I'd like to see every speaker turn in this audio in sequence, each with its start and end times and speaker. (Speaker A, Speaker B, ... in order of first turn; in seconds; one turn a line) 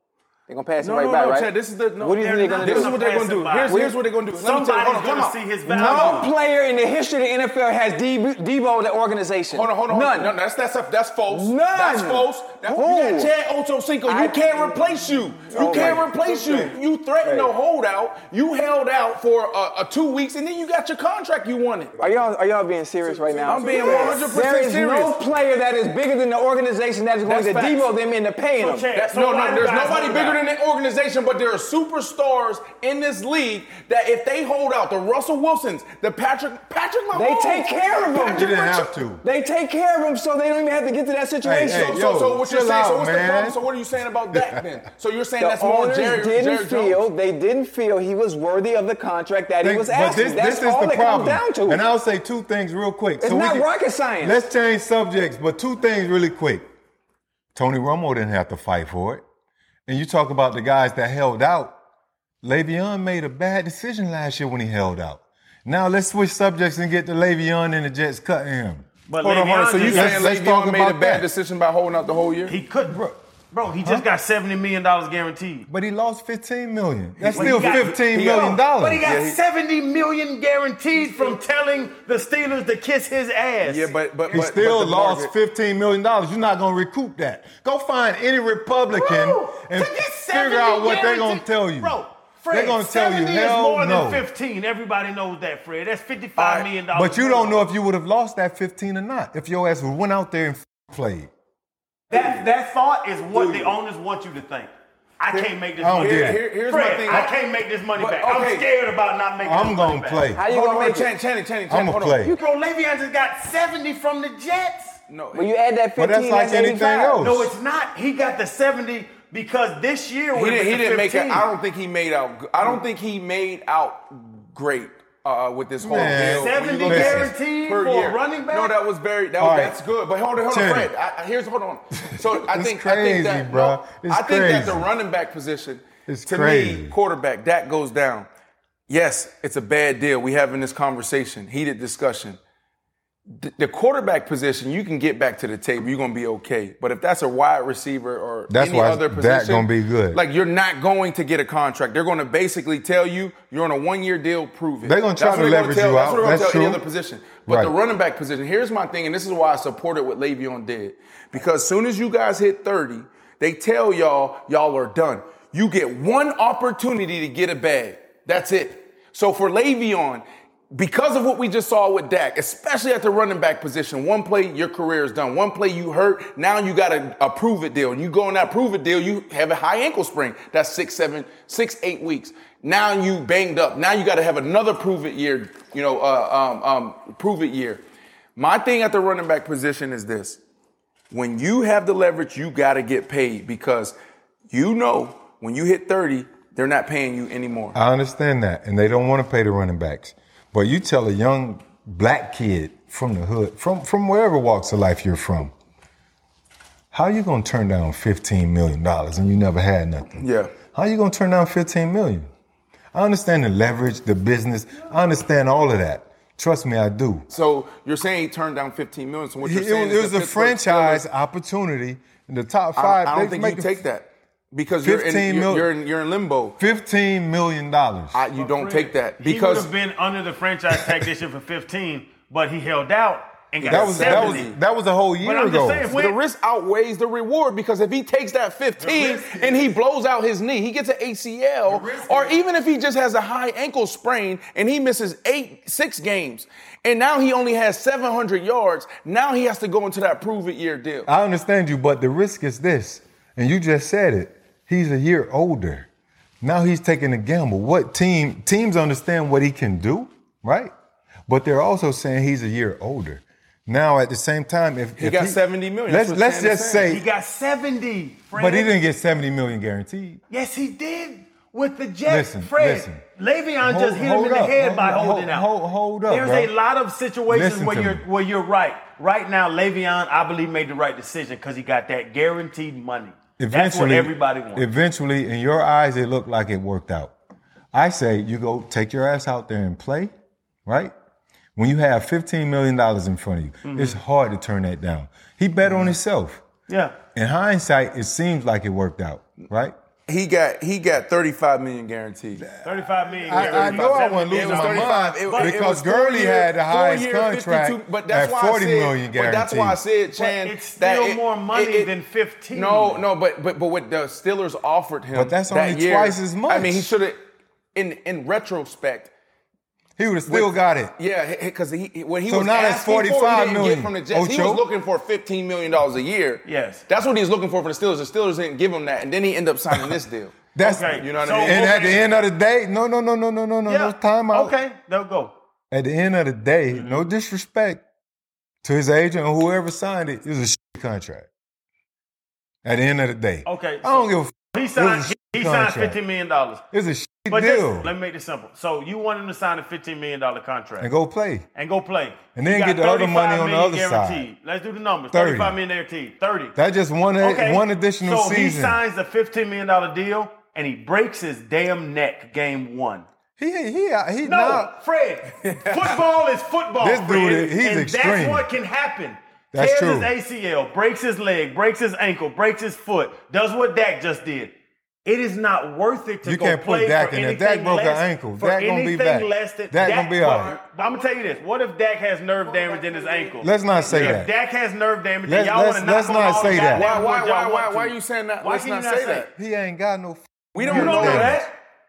Speaker A: 0.5-2.9
Speaker B: 0.8-6.2
Speaker C: 2.2-6.3
Speaker A: 3.7-4.0
Speaker A: 5.7-10.4
Speaker B: 9.5-22.0
Speaker A: 11.3-13.3
Speaker A: 14.1-16.1
Speaker D: 15.6-16.7
Speaker A: 22.0-28.9
Speaker C: 23.4-24.2
Speaker B: 23.4-25.2
Speaker B: 27.2-27.9
Speaker C: 28.6-30.4
Speaker B: 28.9-38.3
Speaker A: 37.1-42.0
Speaker D: 38.1-39.2
Speaker D: 41.4-43.6
Speaker B: 41.7-47.0
Speaker D: 44.3-44.6
Speaker A: 45.4-51.8
Speaker D: 49.6-53.7
Speaker A: 53.2-54.4
Speaker D: 54.2-56.6
Speaker D: 57.5-59.2
Speaker D: 59.9-61.8
Speaker D: 62.4-71.3
Speaker C: 69.1-70.2
Speaker B: 69.7-72.6
Speaker C: 72.5-73.0
Speaker D: 72.9-73.2
Speaker C: 73.5-75.7
Speaker D: 75.7-79.0
Speaker B: 77.2-79.4
Speaker C: 77.3-83.9
Speaker B: 83.6-85.3
Speaker D: 84.3-92.0
Speaker C: 88.9-97.6
Speaker D: 92.5-94.2
Speaker B: 96.4-96.7
Speaker D: 96.9-101.3
Speaker C: 102.1-110.2
Speaker B: 102.1-102.5
Speaker B: 103.3-103.8
Speaker D: 105.8-106.4
Speaker B: 105.9-107.3
Speaker B: 108.0-108.7
Speaker D: 109.4-110.4
Speaker A: 110.3-111.1
Speaker B: 110.5-112.3
Speaker D: 111.7-112.3
Speaker C: 112.2-115.0
Speaker B: 115.1-115.5
Speaker A: 115.3-117.2
Speaker D: 116.0-117.5
Speaker C: 117.2-121.5
Speaker B: 120.3-138.3
Speaker D: 125.8-127.3
Speaker C: 125.9-128.8
Speaker D: 129.4-129.8
Speaker D: 130.4-130.9
Speaker D: 132.1-134.9
Speaker D: 136.1-136.9
Speaker B: 138.9-142.4
Speaker B: 143.3-187.8
Speaker D: 148.5-150.2
Speaker D: 154.8-156.8
Speaker D: 157.5-157.7
Speaker B: 188.3-190.4
Speaker B: 191.1-193.9
Speaker B: 194.5-197.8
Speaker D: 197.7-205.5
Speaker D: 206.9-212.3
Speaker B: 210.2-210.5
Speaker D: 212.9-217.3
Speaker B: 217.3-221.0
Speaker D: 219.4-223.8
Speaker B: 222.8-226.6
Speaker D: 224.8-225.7
Speaker D: 226.6-228.1
Speaker B: 228.1-229.7
Speaker C: 228.3-234.5
Speaker B: 233.6-234.6
Speaker D: 233.7-235.9
Speaker C: 235.2-236.2
Speaker B: 235.9-251.1
Speaker C: 238.9-239.4
Speaker D: 241.7-242.4
Speaker D: 251.1-255.9
Speaker D: 256.4-260.7
Speaker D: 261.3-267.0
Speaker B: 265.0-266.9
Speaker C: 266.8-268.7
Speaker D: 268.3-270.2
Speaker C: 270.3-275.5
Speaker D: 272.1-273.0
Speaker D: 273.6-276.5
Speaker C: 276.1-284.7
Speaker D: 277.3-278.1
Speaker D: 283.4-287.1
Speaker D: 287.7-290.1
Speaker D: 290.6-290.9
Speaker D: 291.6-296.4
Speaker C: 293.6-294.0
Speaker C: 296.7-296.9
Speaker D: 297.1-299.7
Speaker B: 300.1-302.5
Speaker D: 302.4-309.8
Speaker C: 302.6-305.5
Speaker B: 303.3-311.9
Speaker C: 310.2-313.0
Speaker B: 312.5-319.1
Speaker D: 315.1-316.9
Speaker D: 320.0-320.9
Speaker B: 320.3-332.0
Speaker D: 322.3-324.6
Speaker C: 326.4-326.8
Speaker D: 330.5-334.6
Speaker C: 330.6-332.1
Speaker C: 333.7-335.3
Speaker D: 335.7-337.8
Speaker D: 338.6-341.3
Speaker D: 342.6-346.0
Speaker C: 343.4-346.6
Speaker D: 346.7-347.9
Speaker C: 347.3-350.9
Speaker D: 350.8-351.4
Speaker C: 351.5-356.6
Speaker D: 352.3-354.3
Speaker D: 355.1-355.6
Speaker D: 356.6-358.8
Speaker C: 357.2-363.1
Speaker D: 363.4-364.7
Speaker C: 364.2-374.5
Speaker D: 365.6-365.9
Speaker D: 366.8-368.5
Speaker D: 369.5-370.1
Speaker C: 375.0-389.3
Speaker D: 376.2-380.5
Speaker B: 380.2-381.1
Speaker B: 382.4-384.2
Speaker D: 383.4-384.3
Speaker D: 385.2-386.9
Speaker B: 386.7-389.3
Speaker D: 389.3-391.4
Speaker B: 390.5-391.5
Speaker C: 390.6-391.5